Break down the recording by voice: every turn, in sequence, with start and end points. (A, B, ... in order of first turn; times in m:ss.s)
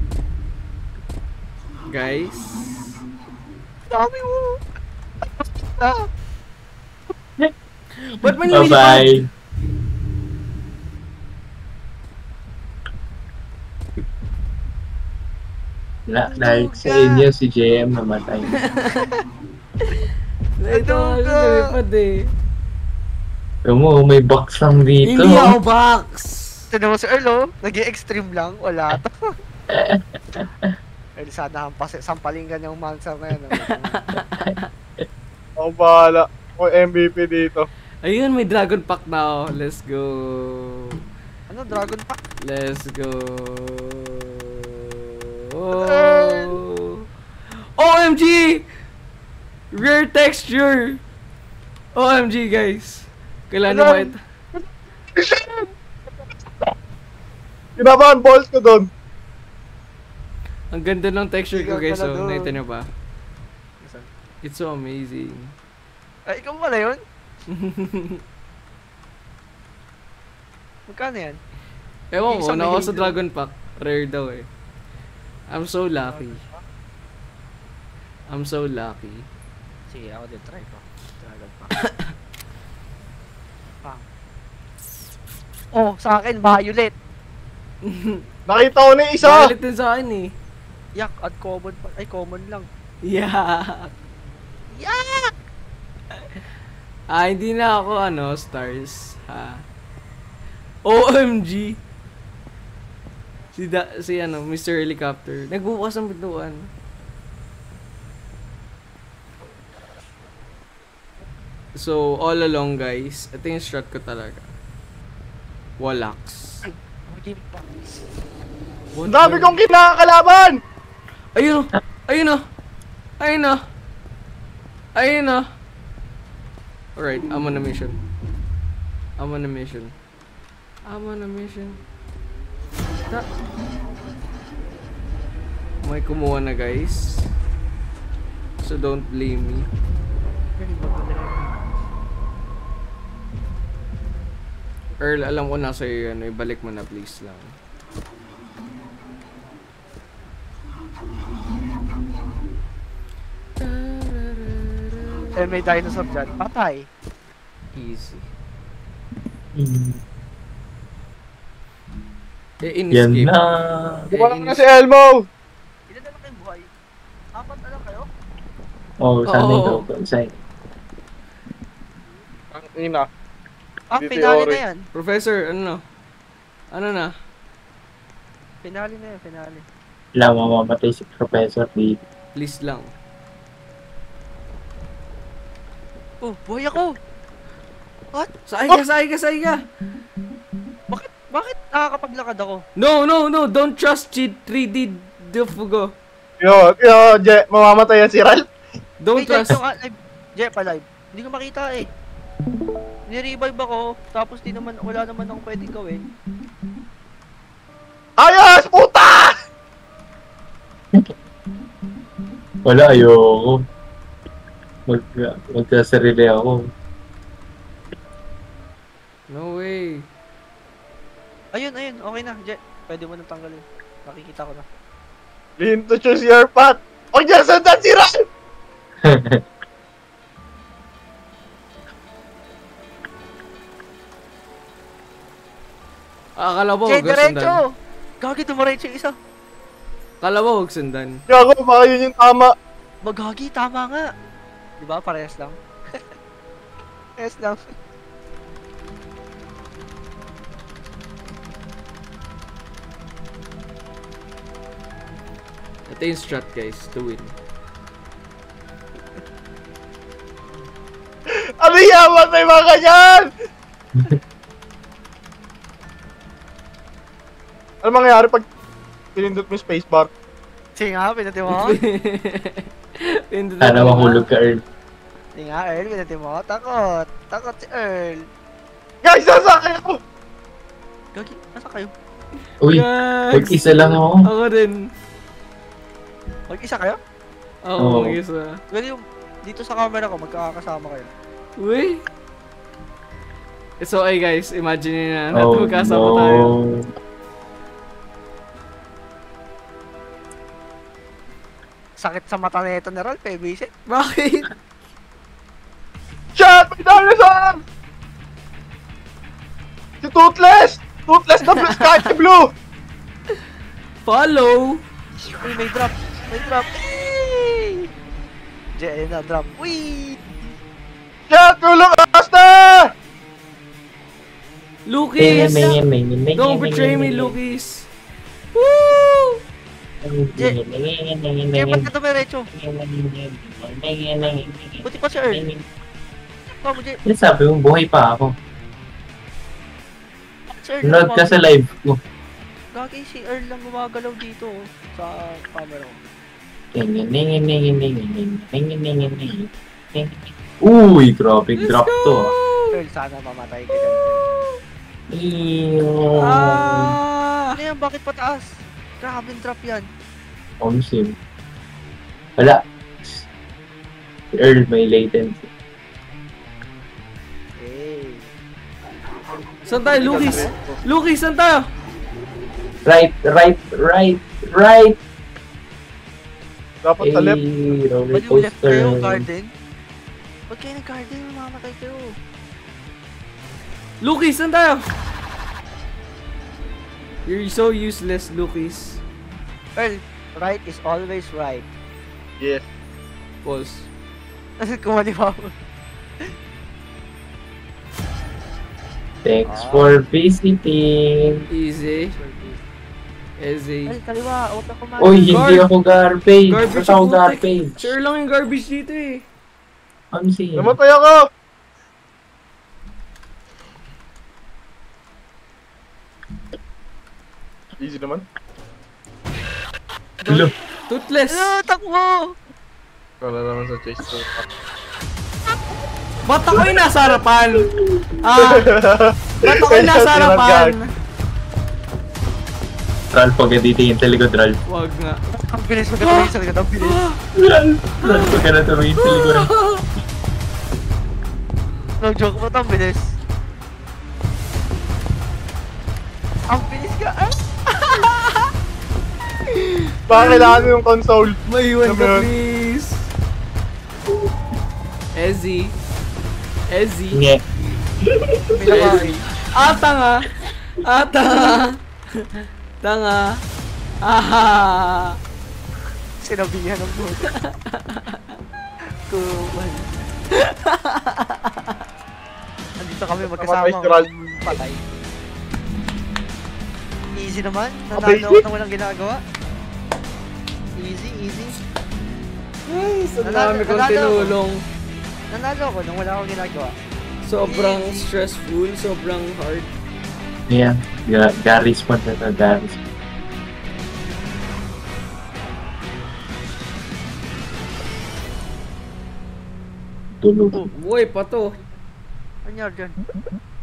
0:01.9-0:03.0 A
0:03.9-0:04.6 B
0:05.2-0:06.1 B
0:08.0-0:09.2 A
0:08.3-0:09.3 C
0:16.1-0:18.5 C
0:16.5-0:17.2 B
0:18.6-0:19.1 A
0:20.6-0:22.3 A
0:20.7-0:21.7 B
0:23.6-0:25.6 C
0:25.0-0:26.6 A
0:26.7-0:29.3 B
0:29.7-0:30.7 C
0:31.2-0:34.0 B
0:33.7-0:34.7 A
0:34.3-0:35.0 C
0:35.6-0:37.7 D
0:38.0-0:41.0 A
0:41.5-0:42.2 B
0:42.4-0:47.0 A
0:45.7-0:46.6 B
0:47.8-0:48.6 A
0:49.7-0:51.0 A
0:51.9-0:54.2 A
0:53.7-0:55.7 B
0:57.8-0:58.9 D
1:00.7-1:02.9 A
1:01.5-1:02.5 B
1:03.8-1:04.1 B
1:04.4-1:05.5 A
1:06.3-1:07.0 B
1:07.5-1:08.2 A
1:10.9-1:11.4 B
1:12.1-1:14.5 A
1:12.3-1:13.2 B
1:15.5-1:16.4 A
1:16.0-1:16.6 B
1:18.3-1:19.3 A
1:19.9-1:21.7 B
1:25.7-1:26.9 B
1:27.8-1:28.2 A
1:28.5-1:29.5 D
1:29.2-1:30.3 A
1:31.0-1:32.7 B
1:33.0-1:33.9 A
1:34.7-1:35.3 B
1:37.1-1:39.6 A
1:40.8-1:41.8 A
1:43.5-1:46.7 A
1:51.8-1:54.4 A
1:55.8-1:56.6 A
1:56.6-1:58.0 B
1:58.9-1:59.6 A
1:59.0-2:00.6 D
2:01.4-2:02.4 A
2:03.2-2:03.6 A
2:05.0-2:05.4 A
2:07.0-2:08.0 A
2:09.2-2:09.9 A
2:10.9-2:11.8 A
2:15.8-2:17.3 A
2:18.6-2:19.7 A
2:20.6-2:21.6 B
2:25.0-2:27.5 A
2:33.6-2:35.3 A
2:35.4-2:36.9 B
2:37.7-2:38.2 A
2:39.5-2:40.0 C
2:42.6-2:43.3 A
2:42.9-2:44.1 C
2:44.1-2:44.7 A
2:44.1-2:45.3 D
2:45.9-2:46.7 B
2:47.3-2:48.1 B
2:49.0-2:50.4 C
2:49.3-2:49.8 A
2:52.5-2:53.1 D
2:53.9-2:54.8 B
2:54.0-2:54.6 D
2:54.9-2:55.8 A
2:56.7-2:57.1 A
2:58.6-2:59.6 B
3:00.2-3:02.0 C
3:02.3-3:02.9 A
3:06.2-3:06.9 B
3:08.5-3:09.6 A
3:10.9-3:12.6 B
3:12.8-3:15.9 A
3:16.4-3:18.5 D
3:19.0-3:19.6 A
3:19.2-3:21.9 B
3:23.1-3:26.0 B
3:28.2-3:29.3 D
3:32.6-3:33.6 C
3:34.9-3:36.6 C
3:39.3-3:40.1 A
3:41.5-3:44.6 B
3:45.6-3:48.2 D
3:49.0-3:49.4 C
3:56.4-3:57.6 A
3:56.9-3:57.6 B
3:58.2-3:59.1 B
4:00.2-4:01.2 A
4:01.3-4:02.5 D
4:03.0-4:04.1 B
4:04.8-4:06.0 B
4:07.2-4:07.7 B
4:15.9-4:17.3 A
4:21.3-4:23.3 D
4:27.8-4:28.4 D
4:29.1-4:30.1 D
4:30.8-4:31.8 B
4:31.5-4:34.2 A
4:33.6-4:34.6 C
4:35.4-4:38.2 B
4:39.0-4:40.0 D
4:41.1-4:41.9 B
4:42.6-4:44.3 C
4:42.7-4:44.8 A
4:46.5-4:47.0 B
4:47.6-4:48.6 A
4:47.8-4:48.2 C
4:48.7-4:51.1 B
4:51.6-4:52.0 A
4:53.8-4:56.5 A
4:55.3-4:56.8 C
5:02.0-5:03.7 B
5:03.9-5:04.5 A
5:06.4-5:07.6 D
5:10.0-5:12.5 D
5:11.4-5:12.0 A
5:14.0-5:14.8 A
5:15.4-5:17.8 B
5:18.8-5:20.2 B
5:21.3-5:22.9 D
5:24.8-5:25.7 A
5:25.2-5:27.4 C
5:25.3-5:25.7 B
5:26.3-5:27.9 A
5:28.6-5:29.4 A
5:30.0-5:31.9 C
5:31.5-5:32.5 B
5:32.5-5:35.6 C
5:34.8-5:35.4 B
5:36.6-5:37.0 B
5:37.0-5:38.4 C
5:40.5-5:41.4 B
5:40.8-5:42.0 C
5:42.7-5:46.0 B
5:46.7-5:52.3 C
5:51.6-5:52.7 A
5:52.7-5:54.3 B
5:54.1-5:54.5 A
5:55.1-5:57.0 C
5:56.1-5:57.5 A
5:57.5-5:59.8 B
6:00.6-6:01.1 C
6:02.4-6:03.2 C
6:04.4-6:05.5 C
6:07.6-6:08.3 B
6:09.6-6:10.5 B
6:09.7-6:11.6 A
6:10.0-6:10.8 D
6:12.8-6:15.0 C
6:16.8-6:17.4 D
6:17.0-6:19.2 C
6:18.1-6:19.5 B
6:20.5-6:22.2 B
6:24.0-6:24.8 A
6:27.2-6:29.0 A
6:29.8-6:31.7 B
6:33.4-6:33.9 A
6:34.6-6:35.5 B
6:39.2-6:41.4 C
6:39.4-6:40.0 B
6:41.5-6:42.1 A
6:41.9-6:42.6 B
6:43.4-6:44.0 A
6:43.9-6:45.4 B
6:45.0-6:47.9 C
6:45.3-6:45.7 A
6:46.5-6:49.2 A
6:50.1-6:50.8 C
6:50.6-6:51.3 D
6:57.8-6:58.2 D
7:00.2-7:00.5 B
7:00.3-7:00.5 C
7:00.9-7:01.5 A
7:01.3-7:02.3 B
7:03.2-7:04.4 D
7:06.2-7:07.7 A
7:06.5-7:06.8 D
7:08.2-7:08.7 A
7:08.4-7:10.7 D
7:09.4-7:10.9 A
7:13.1-7:14.6 C
7:14.7-7:15.2 A
7:15.3-7:17.0 B
7:16.0-7:17.2 A
7:17.4-7:19.5 C
7:18.0-7:18.4 A
7:19.0-7:19.8 A
7:22.0-7:23.2 B
7:26.5-7:27.4 B
7:27.8-7:28.4 A
7:29.5-7:30.7 A
7:30.1-7:32.3 D
7:31.5-7:33.1 A
7:35.1-7:35.7 A
7:36.7-7:37.2 A
7:37.1-7:37.4 C
7:38.1-7:39.0 C
7:38.5-7:39.2 B
7:38.7-7:42.3 A
7:42.8-7:43.4 A
7:44.0-7:45.2 A
7:46.2-7:47.3 B
7:47.3-7:48.4 A
7:49.1-7:49.9 B
7:50.3-7:51.8 A
7:52.8-7:54.8 B
7:53.2-7:54.5 D
7:57.2-7:59.2 B
7:58.0-7:58.4 D
8:00.8-8:01.6 B
8:02.6-8:04.6 A
8:03.2-8:04.3 B
8:05.3-8:06.7 B
8:07.2-8:09.7 A
8:07.4-8:08.1 B
8:10.5-8:12.8 C
8:20.2-8:20.6 C
8:20.7-8:21.6 A
8:22.4-8:23.0 B